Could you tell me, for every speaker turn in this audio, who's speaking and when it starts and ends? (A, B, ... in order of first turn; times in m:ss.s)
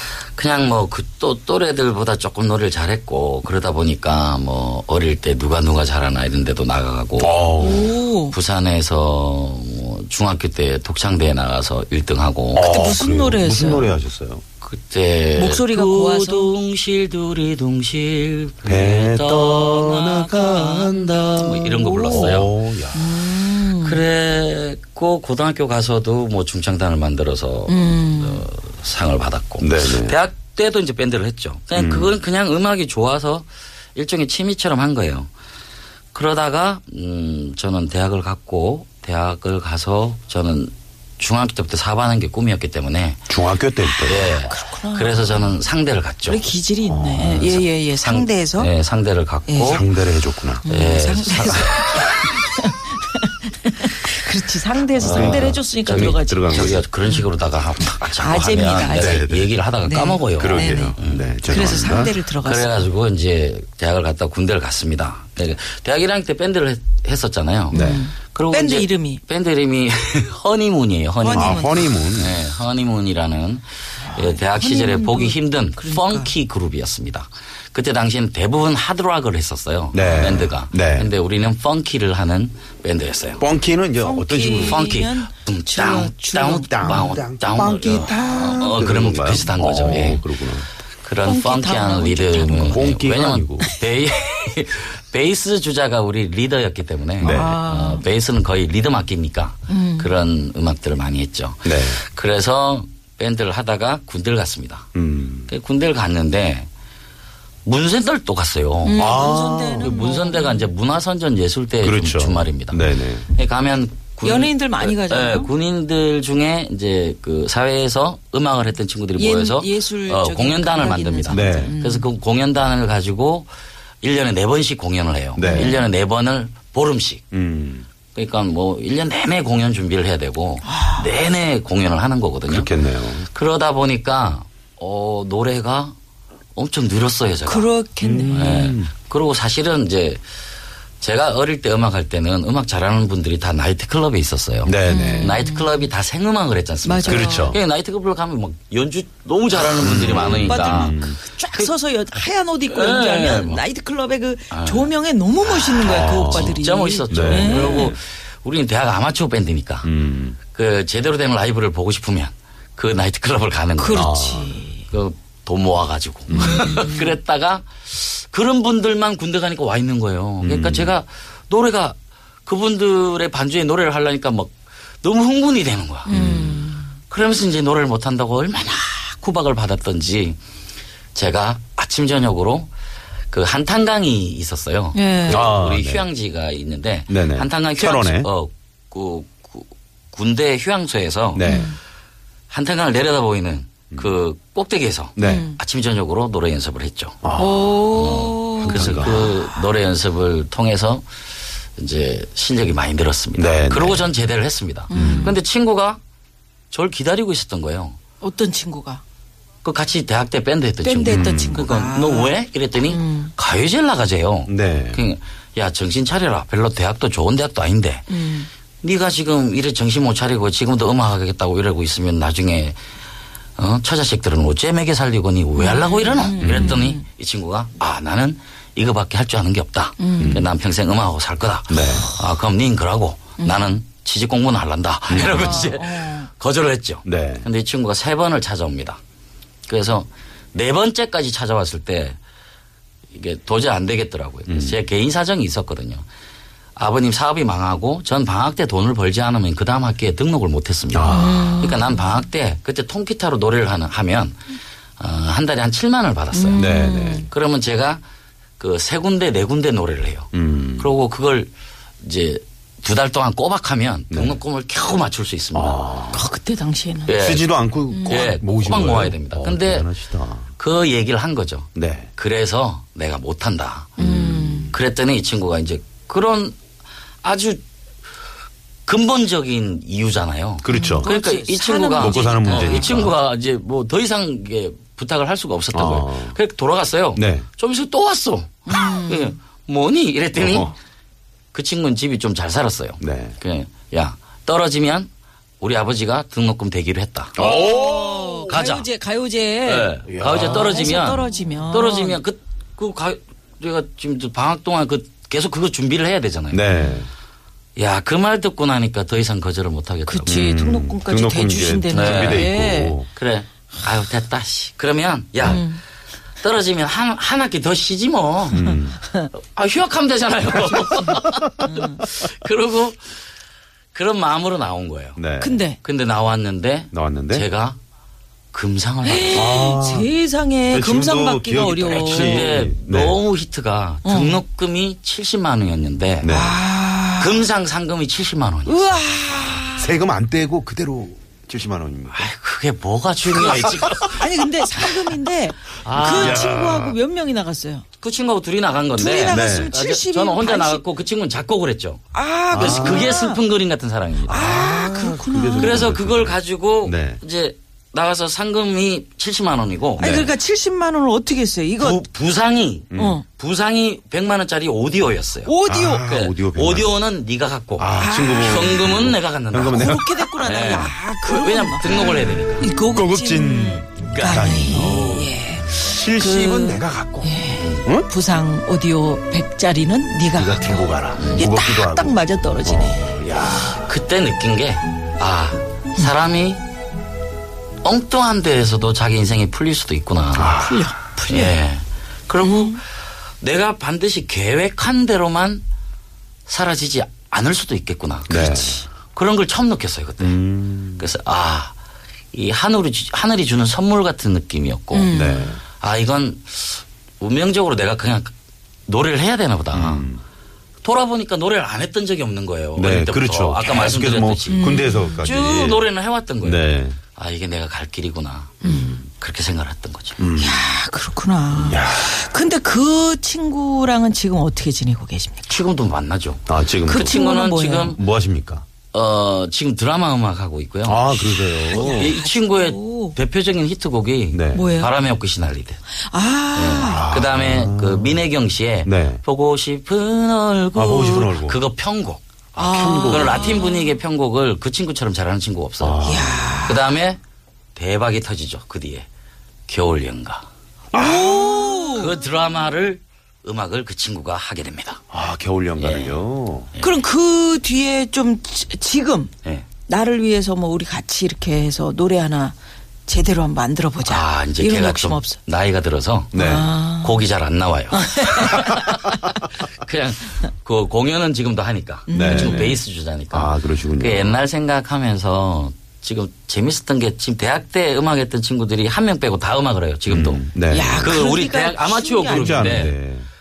0:00.3-0:07.5 A
0:07.2-0:07.9 B
0:07.6-0:08.4 C
0:08.3-0:13.0 A
0:12.5-0:14.4 B
0:12.6-0:13.9 C
0:14.6-0:22.5 A
0:15.3-0:16.5 C
0:18.6-0:23.2 B
0:21.8-0:24.0 C
0:23.3-0:35.3 A
0:27.7-0:28.4 C
0:29.6-0:30.2 B
0:31.8-0:32.1 B
0:36.1-0:43.3 A
0:43.3-0:44.4 B
0:44.0-0:46.4 A
0:44.5-0:45.5 C
0:46.2-0:48.7 C
0:46.9-0:47.6 B
0:47.2-0:49.8 A
0:49.5-0:49.8 C
0:49.6-0:50.6 B
0:50.6-0:52.2 A
0:50.6-0:57.3 C
0:55.0-1:23.4 A
0:55.0-0:56.8 B
0:58.1-1:01.0 C
0:58.9-0:59.6 B
1:00.4-1:02.1 B
1:01.5-1:02.9 C
1:07.7-1:08.0 B
1:07.7-1:09.2 C
1:11.2-1:11.9 C
1:11.3-1:12.4 B
1:14.0-1:16.3 C
1:19.9-1:21.1 B
1:20.0-1:20.3 C
1:23.4-1:24.9 B
1:24.0-1:27.2 C
1:24.5-1:30.4 A
1:26.5-1:30.7 B
1:28.0-1:28.8 C
1:31.0-1:44.9 A
1:31.2-1:32.9 C
1:32.6-1:33.7 B
1:37.2-1:37.6 B
1:37.2-1:38.1 C
1:39.7-1:40.1 C
1:41.6-1:42.0 B
1:44.9-1:45.5 B
1:45.5-1:46.7 A
1:47.6-1:49.2 A
1:48.8-1:50.7 C
1:48.9-1:49.9 B
1:49.8-2:03.5 A
1:51.8-1:53.2 B
1:54.2-1:55.5 C
1:59.2-2:02.1 C
2:01.3-2:01.7 B
2:04.0-2:07.2 A
2:05.3-2:05.8 B
2:05.4-2:05.8 C
2:07.3-2:07.8 B
2:08.1-2:15.9 A
2:10.6-2:11.1 C
2:12.5-2:13.3 B
2:16.6-2:17.7 A
2:17.4-2:18.7 C
2:18.0-2:18.9 B
2:18.3-2:20.2 A
2:21.0-2:31.7 A
2:24.6-2:25.4 B
2:24.8-2:25.9 C
2:26.8-2:27.6 C
2:27.0-2:27.6 B
2:29.7-2:31.2 B
2:30.2-2:37.9 C
2:32.6-2:33.6 A
2:34.5-2:34.9 A
2:35.4-2:39.9 A
2:35.8-2:38.0 B
2:39.8-2:40.4 B
2:40.5-2:44.1 A
2:43.8-2:44.9 C
2:43.9-2:44.5 B
2:44.9-3:00.4 A
2:46.3-2:46.8 B
2:46.3-2:47.1 C
2:50.4-2:51.0 B
2:56.0-2:56.9 C
2:56.1-2:56.7 B
3:01.1-3:02.7 A
3:03.3-3:11.5 A
3:04.9-3:05.5 C
3:05.3-3:06.0 B
3:07.1-3:08.3 B
3:11.3-3:11.7 B
3:11.4-3:11.8 C
3:12.5-3:17.2 A
3:15.2-3:15.5 B
3:15.2-3:15.6 C
3:17.2-3:17.8 B
3:17.4-3:19.6 C
3:17.9-3:21.0 A
3:18.6-3:19.3 B
3:21.8-3:26.0 A
3:23.4-3:24.1 B
3:24.9-3:25.4 C
3:24.9-3:25.3 B
3:26.7-3:28.0 A
3:28.2-3:29.0 C
3:29.6-3:38.2 A
3:30.8-3:33.3 C
3:31.0-3:31.6 B
3:34.5-3:35.0 B
3:38.1-3:38.5 C
3:38.8-3:42.8 A
3:43.6-3:59.0 A
3:45.6-3:47.0 C
3:46.4-3:46.8 B
3:50.0-3:50.4 C
3:50.2-3:50.5 B
3:51.7-3:52.1 B
3:53.4-3:53.7 C
3:55.1-3:55.7 B
3:55.1-3:56.3 C
3:57.0-3:57.4 B
3:59.7-4:02.2 A
4:03.1-4:06.0 A
4:04.5-4:04.8 B
4:06.8-4:14.4 A
4:10.9-4:11.7 B
4:11.1-4:12.1 C
4:15.0-4:18.0 A
4:16.3-4:17.3 C
4:16.5-4:17.3 B
4:18.6-4:26.0 A
4:20.3-4:20.9 B
4:24.1-4:24.4 B
4:25.5-4:26.2 B
4:26.1-4:27.1 C
4:27.0-4:27.5 A
4:27.2-4:30.5 B
4:27.9-4:28.4 C
4:28.0-4:29.9 A
4:30.6-4:36.6 A
4:31.8-4:32.1 B
4:34.0-4:34.7 B
4:34.0-4:34.8 C
4:37.2-4:37.6 A
4:38.8-4:50.8 A
4:40.6-4:41.1 B
4:40.7-4:43.1 C
4:41.9-4:43.1 B
4:45.7-4:46.4 B
4:47.1-4:47.5 B
4:48.7-4:49.4 C
4:50.3-4:50.7 B
4:51.5-4:57.4 A
4:53.0-4:53.4 B
4:57.4-4:58.6 B
4:57.4-5:02.2 C
4:58.5-4:58.9 A
4:59.6-5:06.6 A
5:00.1-5:01.2 B
5:06.5-5:07.1 B
5:07.8-5:10.4 A
5:10.1-5:13.0 C
5:10.3-5:13.1 B
5:11.9-5:15.7 A
5:15.4-5:15.8 C
5:16.4-5:18.6 A
5:18.5-5:19.0 B
5:18.6-5:19.3 C
5:19.3-5:23.0 A
5:20.8-5:22.0 C
5:23.9-5:25.2 A
5:25.2-5:25.6 B
5:25.4-5:25.8 C
5:25.8-5:27.8 A
5:26.9-5:27.4 B
5:28.5-5:29.5 A
5:29.0-5:32.5 C
5:29.3-5:30.1 B
5:30.7-5:33.2 B
5:31.9-5:36.3 A
5:34.0-5:34.4 C
5:36.2-5:36.6 B
5:36.2-5:37.4 C
5:37.1-5:39.1 A
5:38.6-5:40.0 C
5:39.5-5:42.3 B
5:42.1-5:44.4 A
5:43.2-5:44.2 B
5:44.0-5:47.8 C
5:45.8-5:46.6 A
5:46.0-5:47.0 B
5:48.0-5:54.4 A
5:48.9-5:50.8 C
5:49.2-5:49.7 B
5:52.1-5:53.4 C
5:52.5-5:53.2 B
5:54.3-5:55.9 C
5:54.3-5:57.2 B
5:55.6-6:00.2 A
6:00.0-6:02.0 C
6:00.0-6:00.3 B
6:01.8-6:12.7 A
6:02.9-6:03.2 B
6:02.9-6:03.2 C
6:05.4-6:06.1 C
6:05.7-6:06.9 B
6:07.8-6:10.2 B
6:08.0-6:08.8 C
6:09.7-6:23.2 C
6:12.8-6:18.1 B
6:14.0-6:15.2 A
6:20.3-6:23.9 B
6:21.2-6:21.5 A
6:23.7-6:26.6 A
6:27.8-6:30.6 A
6:30.3-6:30.9 B
6:30.6-6:31.6 C
6:31.3-6:32.8 A
6:32.4-6:32.8 C
6:33.4-6:35.6 A
6:36.5-6:40.4 A
6:38.3-6:38.8 B
6:40.2-6:41.1 B
6:41.0-6:41.7 A
6:42.3-6:45.2 A
6:44.9-6:45.5 C
6:45.1-6:45.6 B
6:45.8-6:48.3 A
6:48.9-6:50.1 A
6:49.7-6:50.2 B
6:50.8-7:00.2 A
6:52.8-6:55.9 B
6:54.5-6:55.6 C
6:56.4-6:57.0 B
6:58.6-6:59.0 C
6:58.6-6:59.0 B
7:00.2-7:00.6 B
7:00.4-7:05.6 C
7:01.5-7:02.1 B
7:05.5-7:08.0 A
7:06.5-7:07.1 B
7:06.8-7:08.0 C
7:07.9-7:08.6 B
7:08.9-7:15.8 A
7:10.8-7:12.1 B
7:11.4-7:13.2 C
7:14.3-7:14.7 B
7:14.5-7:14.9 C
7:16.0-7:17.1 C
7:16.5-7:22.2 A
7:16.9-7:18.3 B
7:18.8-7:19.2 B
7:20.7-7:21.6 B
7:22.5-7:23.7 B
7:22.6-7:24.0 C
7:23.0-7:26.1 A
7:25.8-7:26.6 B
7:26.0-7:26.9 C
7:26.6-7:27.2 A
7:27.7-7:29.0 A
7:29.7-7:30.5 A
7:30.9-7:32.1 C
7:30.9-7:31.8 B
7:31.4-7:35.0 A
7:35.1-7:36.7 B
7:35.8-7:37.0 A
7:36.8-7:39.3 C
7:39.9-7:42.5 C
7:43.1-7:45.4 C
7:44.0-8:03.0 A
7:46.3-7:46.7 B
7:46.3-7:47.2 C
7:47.9-7:49.1 C
7:52.1-7:52.8 C
7:52.1-7:52.7 B
7:53.3-7:54.4 B
8:00.1-8:01.2 B
8:00.7-8:02.9 C
8:02.3-8:03.3 B